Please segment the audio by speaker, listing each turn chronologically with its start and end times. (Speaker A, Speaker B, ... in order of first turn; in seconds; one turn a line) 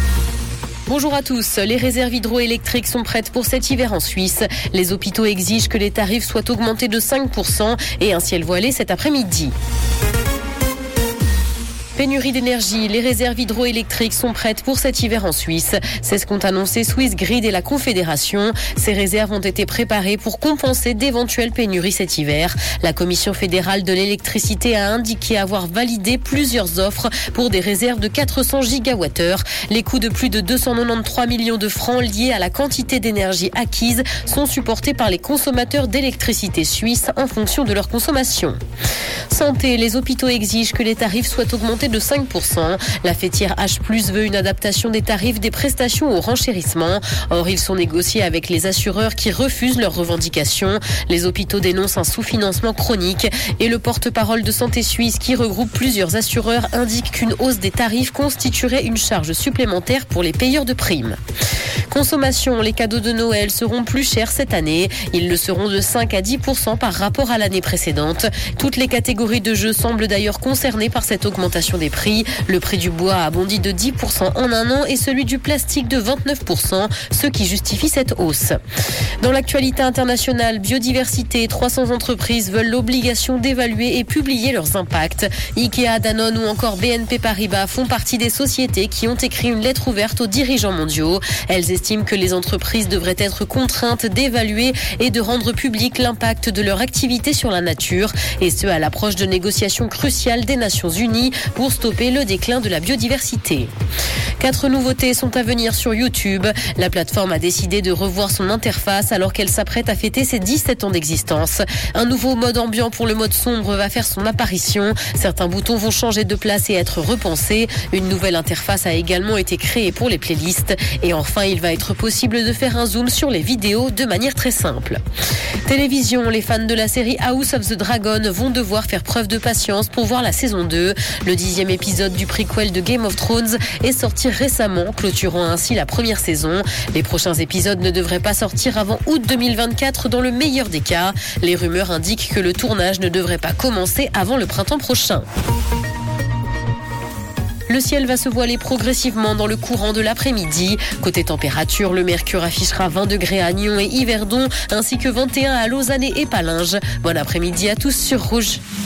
Speaker A: 0.9-9.5
Speaker A: 11.9-38.6
Speaker A: 39.3-61.2
Speaker A: 61.9-78.6
Speaker A: 79.2-103.7
Speaker A: 104.4-125.0
Speaker A: 125.7-145.3
Speaker A: 147.7-158.6